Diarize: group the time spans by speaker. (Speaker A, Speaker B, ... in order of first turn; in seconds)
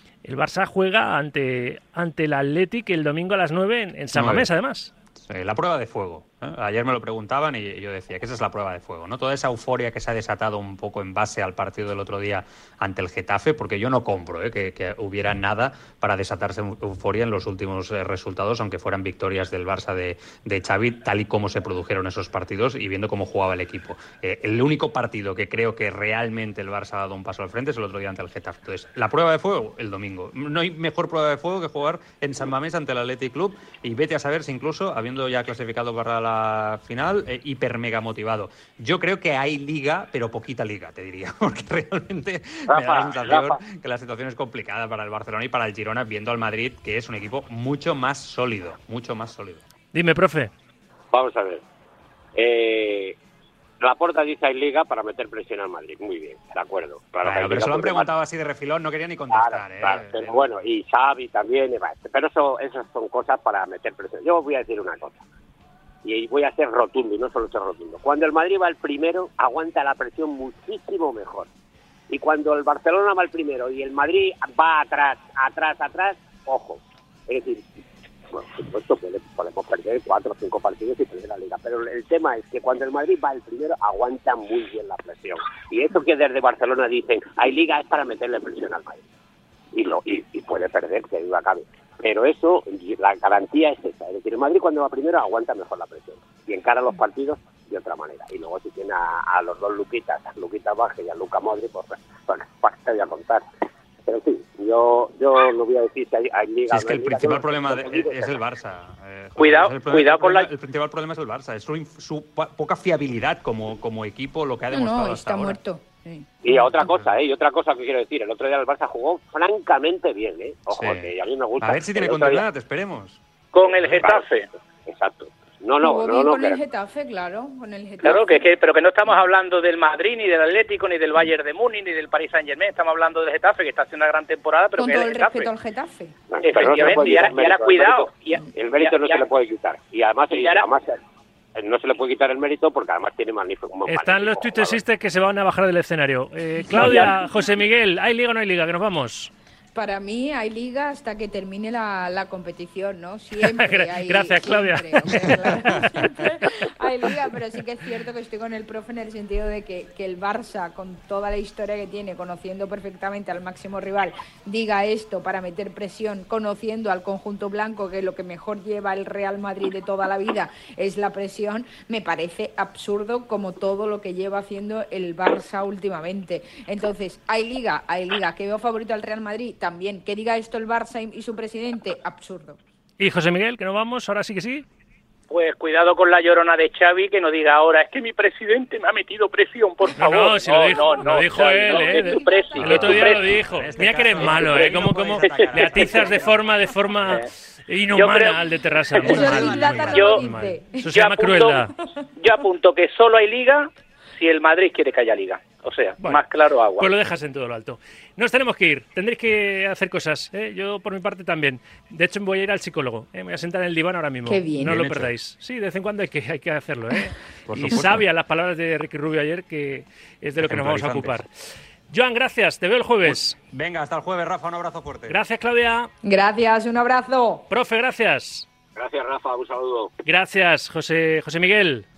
Speaker A: 0.2-4.9, 49.9-50.5, 143.9-149.3, 153.4-156.1, 183.0-184.7, 190.0-201.7, 206.8-221.3, 221.9-223.3, 225.1-225.9, 227.5-228.5, 230.1-231.8
Speaker B: 4.1-4.5, 5.3-49.6, 57.2-60.5, 106.7-115.6, 116.8-117.1, 120.7-123.2, 192.6-196.5, 214.6-215.1, 217.5-218.1, 220.4-221.2, 223.0-225.2
Speaker C: 42.7-43.6, 51.1-51.6, 52.4-53.2, 53.8-58.1, 59.3-65.2, 66.0-71.5, 72.1-77.6, 78.3-89.0, 89.7-103.5, 104.1-108.4, 116.4-122.5, 123.9-124.2, 124.9-126.6, 136.3-140.9, 141.6-144.8, 228.8-229.9
Speaker D: 109.4-110.5, 123.5-124.5, 128.0-135.5, 136.4-139.2, 140.3-140.7, 146.8-147.1, 185.3-193.4, 194.2-196.0, 198.0-198.4, 199.0-200.2, 200.9-206.9
Speaker E: 114.7-116.5, 125.8-128.4, 134.8-136.2, 146.8-147.1, 149.8-182.6, 190.7-193.1, 199.0-200.8, 214.3-214.8, 226.0-227.5